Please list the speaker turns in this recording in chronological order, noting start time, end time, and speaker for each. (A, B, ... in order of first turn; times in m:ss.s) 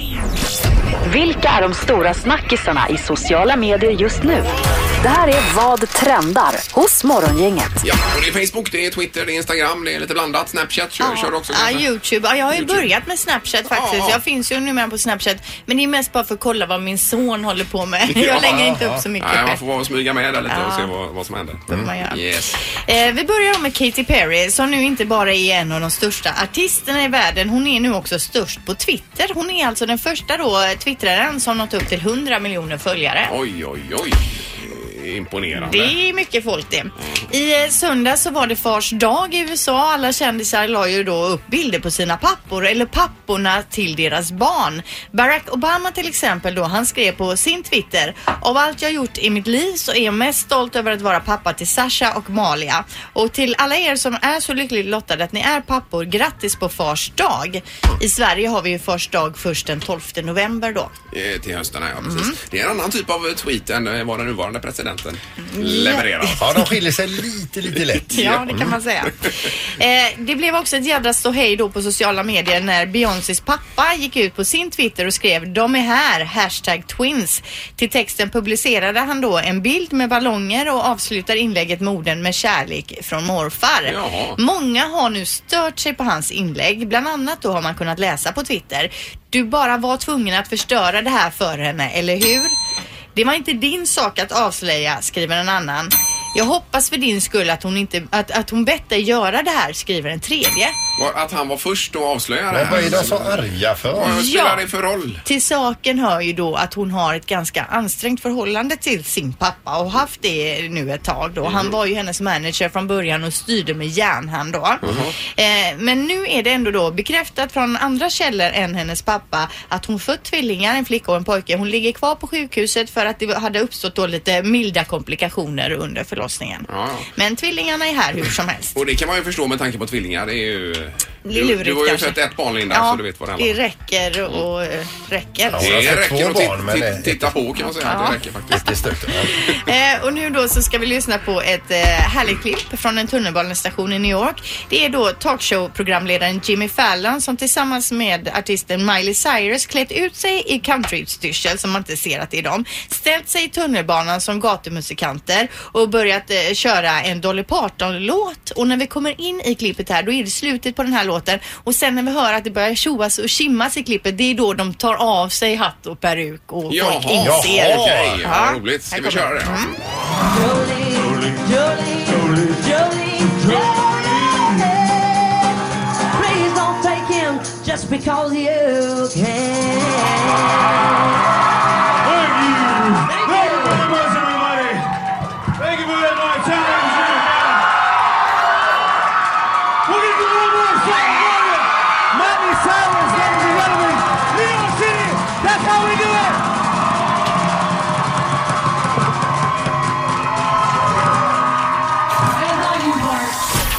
0:01.0-0:04.5 A
0:05.0-0:07.8 A
0:07.8-0:11.9 B
0:11.0-0:19.6 C
0:12.5-0:12.9 B
0:13.7-0:14.2 B
0:18.1-0:22.6 B
0:18.5-0:19.0 D
0:20.5-0:20.9 C
0:21.7-0:33.3 C
0:33.3-0:36.0 B
0:35.6-1:00.9 C
1:01.1-1:06.5 B
1:02.0-1:02.4 C
1:05.5-1:06.7 C
1:06.4-1:08.7 D
1:08.1-1:08.7 B
1:08.1-1:32.6 C
1:23.8-1:24.4 B
1:33.1-1:40.8 C
1:41.0-1:45.2 B
1:42.5-1:44.2 D
1:44.0-1:44.7 C
1:45.2-2:08.8 C
1:51.4-1:51.8 B
1:54.8-1:55.1 B
2:06.7-2:07.1 B
2:08.8-2:13.6 B
2:11.2-2:12.2 C
2:12.7-2:15.8 C
2:15.5-2:17.4 D
2:15.6-2:18.8 B
2:17.8-2:18.2 C
2:18.5-2:19.3 D
2:19.4-2:49.8 C
2:46.7-2:49.7 B
2:47.2-2:48.2 D
2:50.2-2:55.6 E
2:56.1-3:00.8 E
3:02.0-3:04.9 F
3:03.1-3:04.0 E
3:05.6-3:07.6 F
3:09.9-3:16.4 F
3:22.3-3:23.4 E